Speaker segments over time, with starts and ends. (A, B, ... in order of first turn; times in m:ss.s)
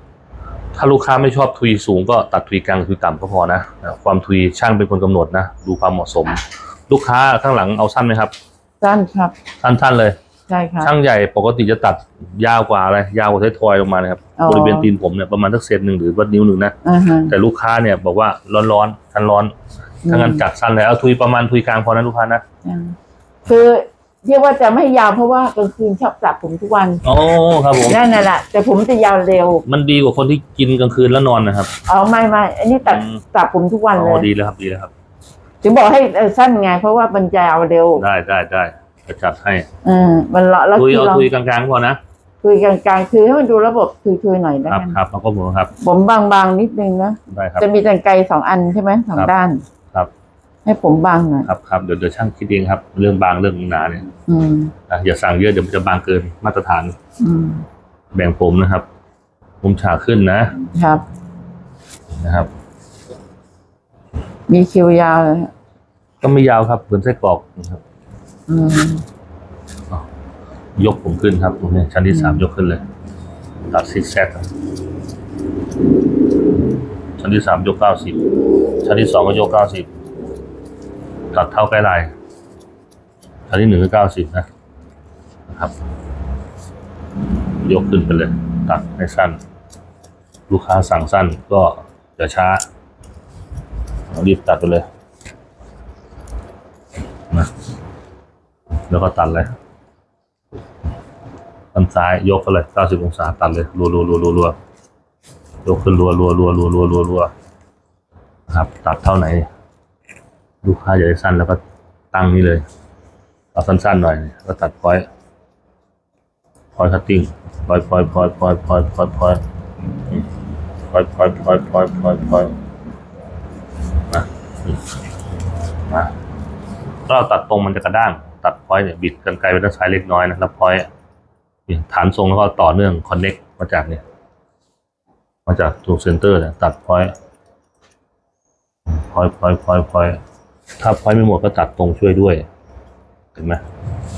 0:00.7-0:08.3 A
0:08.8-0:09.3 B
0:09.6-0:10.2 A
0:10.5-0:10.9 B
0:10.8-0:16.8 A
0:14.4-0:14.9 B
0:16.8-0:17.3 B
0:17.3-0:19.5 A
0:20.1-0:20.4 B
0:20.1-0:22.4 A
0:22.6-0:27.0 B
0:27.0-0:28.0 A
0:27.9-0:29.6 B
0:29.7-0:31.7 A
0:31.9-0:34.3 B
0:32.9-0:33.2 A
0:34.0-0:34.9 A
0:35.6-0:38.0 B
0:38.0-0:39.7 A
0:39.8-0:41.3 B
0:40.8-0:42.0 A
0:42.4-0:45.0 B
0:44.7-0:45.7 A
0:45.8-0:49.6 B
0:47.3-0:47.7 A
0:50.6-0:51.5 B
0:51.4-0:54.1 A
0:54.2-0:54.7 B
0:54.9-0:57.0 A
0:57.2-0:57.6 B
0:58.1-0:58.9 A
0:59.6-1:00.6 A
1:00.7-1:01.0 B
1:02.1-1:02.5 A
1:04.5-1:05.5 B
1:06.2-1:07.8 A
1:08.5-1:09.0 B
1:10.8-1:12.8 A
1:12.1-1:12.4 B
1:13.7-1:14.5 A
1:17.2-1:18.2 A
1:18.8-1:19.9 A
1:21.3-1:22.1 A
1:23.5-1:24.5 A
1:25.5-1:25.7 A
1:27.6-1:29.4 A
1:30.5-1:32.7 A
1:34.1-1:34.9 A
1:38.9-1:39.5 A
1:41.7-1:44.6 A
1:45.6-1:47.3 A
1:48.5-1:49.5 A
1:50.6-1:51.6 A
1:52.1-1:52.6 A
1:53.6-1:55.1 A
1:56.8-1:59.4 A
2:00.9-2:02.5 A
2:04.1-2:04.8 A
2:07.1-2:10.9 A
2:11.7-2:14.0 A
2:15.5-2:17.1 A
2:18.9-2:20.2 A
2:20.8-2:22.5 A
2:23.4-2:23.6 A